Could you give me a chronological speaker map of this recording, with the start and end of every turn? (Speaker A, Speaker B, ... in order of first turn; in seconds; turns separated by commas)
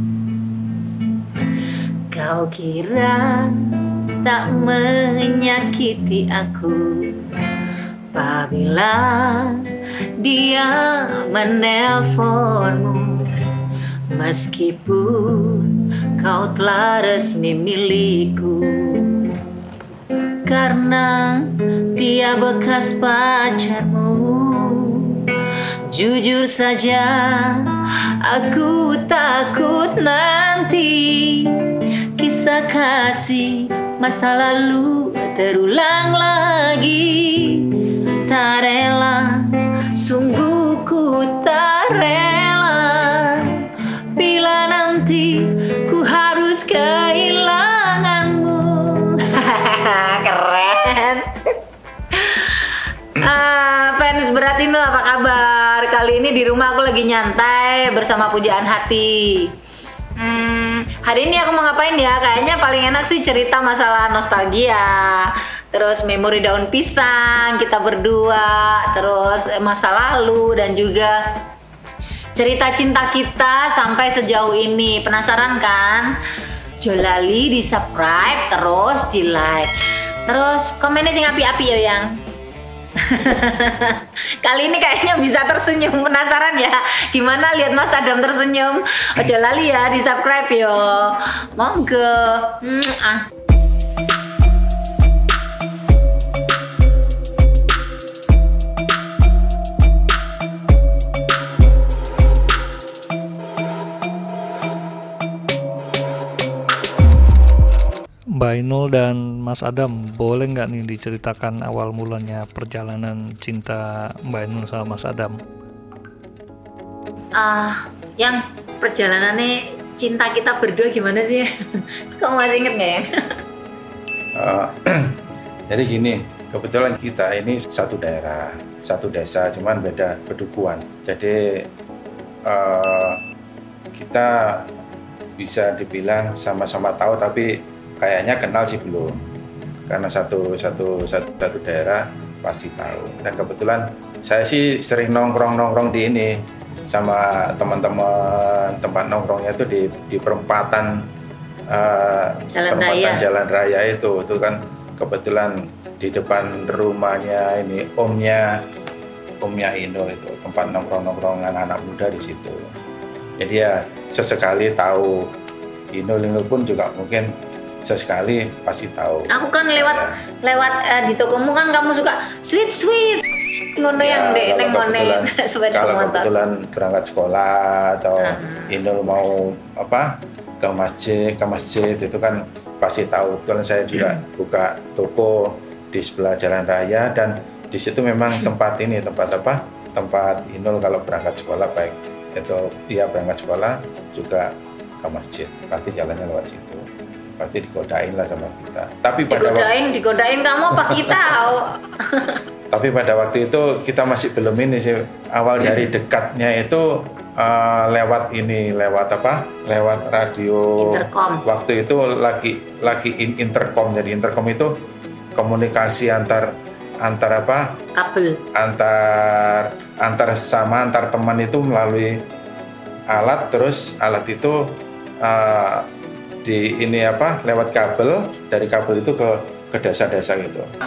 Speaker A: 2.1-7.3, Speaker A: 8.1-9.6, Speaker A: 10.2-13.3, Speaker A: 14.1-19.3, Speaker A: 20.4-25.3, Speaker A: 25.9-51.5, Speaker A: 52.1-59.5, Speaker A: 60.2-71.2, Speaker A: 72.3-76.2, Speaker A: 76.8-79.7, Speaker A: 80.3-82.2, Speaker A: 83.0-93.3, Speaker B: 108.4-115.4, Speaker A: 117.3-121.5, Speaker A: 122.2-123.0, Speaker C: 124.3-125.2, Speaker C: 125.7-131.7, Speaker C: 132.5-133.2, Speaker C: 133.9-134.7, Speaker C: 135.4-139.2, Speaker C: 139.9-151.1, Speaker C: 151.7-158.6, Speaker A: 152.5-153.2, Speaker C: 159.4-162.8, Speaker C: 163.4-165.3, Speaker C: 165.9-170.2, Speaker A: 169.3-176.3, Speaker C: 174.0-196.8, Speaker A: 178.2-178.8, Speaker C: 197.4-199.7, Speaker A: 199.3-202.4, Speaker C: 200.8-201.1, Speaker C: 202.7-214.8, Speaker A: 210.8-211.4, Speaker C: 215.4-217.8, Speaker A: 217.9-218.4, Speaker C: 218.5-222.2, Speaker C: 223.1-225.9, Speaker C: 226.4-230.7